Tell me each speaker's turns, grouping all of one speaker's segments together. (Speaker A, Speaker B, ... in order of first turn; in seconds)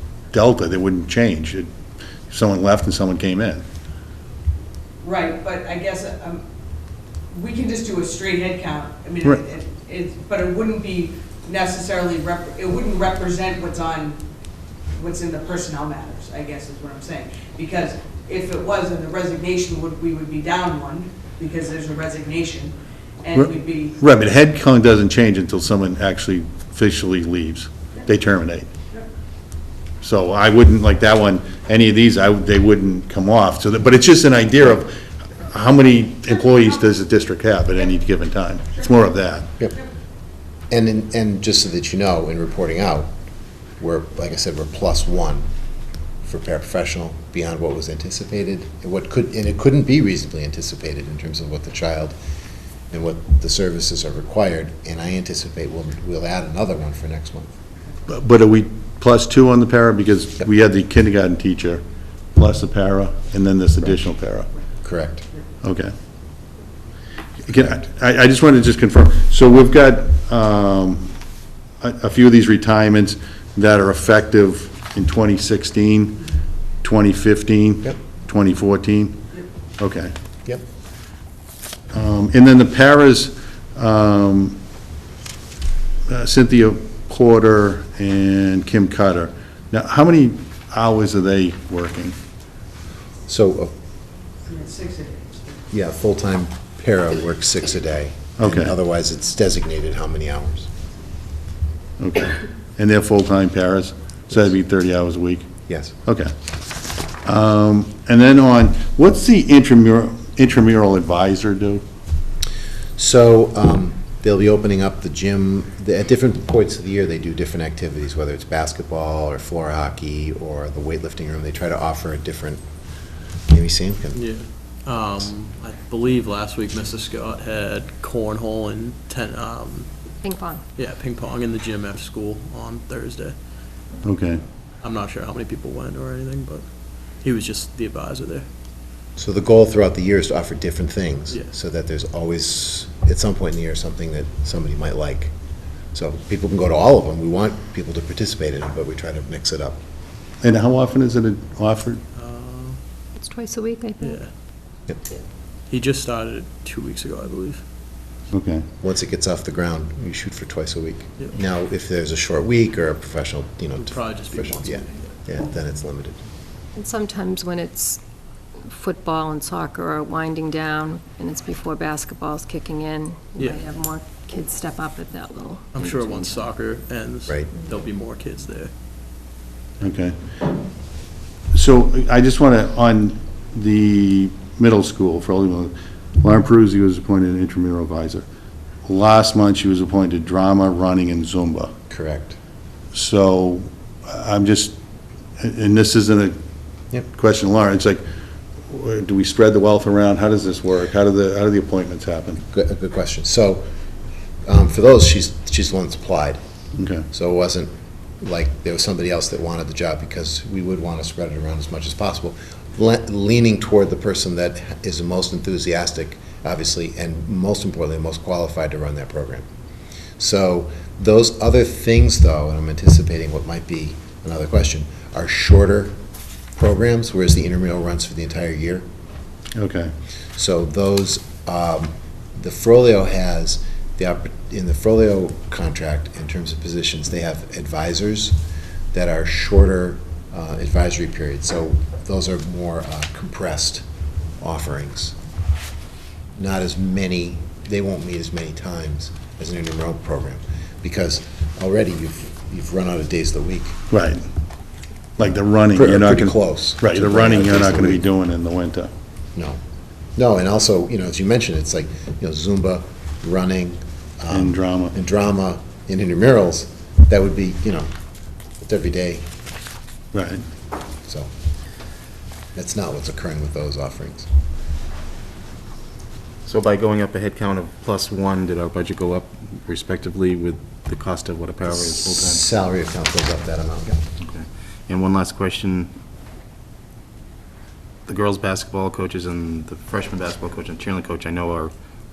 Speaker A: 0.3-1.7, 2.3-3.6, 23.3-28.7, 30.0-39.5, 58.1-61.8, 62.4-64.5, 65.6-65.9, 67.4-71.1, 71.8-76.2, 76.8-79.2, 79.8-80.1, 81.9-84.6, 86.1-92.2, 98.4-98.7, 102.0-105.5, 106.0-106.3, 107.2-111.8, 134.0-134.4, 150.4-152.0, 158.3-158.7, 179.8-180.2, 181.5-188.2, 188.8-191.7, 192.9-194.7, 195.4-196.3, 197.1-198.0, 198.7-202.4, 206.7-207.1, 229.6-229.9, 253.9-254.2, 255.2-258.9, 264.3-264.9, 270.1-270.4
Speaker B: 5.0-6.4, 7.3-14.2, 14.9-23.9, 94.5-95.6
Speaker C: 40.7-43.1, 43.8-45.4, 46.2-52.1, 52.9-57.5, 64.8-65.3, 93.3-93.7, 95.7-100.7, 105.7-105.9, 113.0-122.6, 123.5-124.2, 139.2-145.3, 145.9-149.8, 158.8-166.2, 191.9-192.4, 202.5-203.6, 204.4-206.4, 207.1-219.4, 220.2-225.9, 226.6-228.8, 230.3-238.3, 238.9-243.8, 244.4-245.2, 246.4-253.8, 255.7-258.0, 259.3-259.6, 260.1-267.9, 268.6-269.3, 272.5-274.3, 281.7-284.0
Speaker D: 124.1-129.9, 130.8-133.3, 134.8-136.6, 137.2-138.4, 152.1-152.8, 154.0-154.3, 155.7-157.6, 163.8-165.2, 173.3-173.8, 175.7-178.7
Speaker E: 130.2-130.6, 153.2-154.2, 166.7-168.0, 168.6-176.5
Speaker F: 276.4-282.4, 284.2-285.9, 288.1-291.7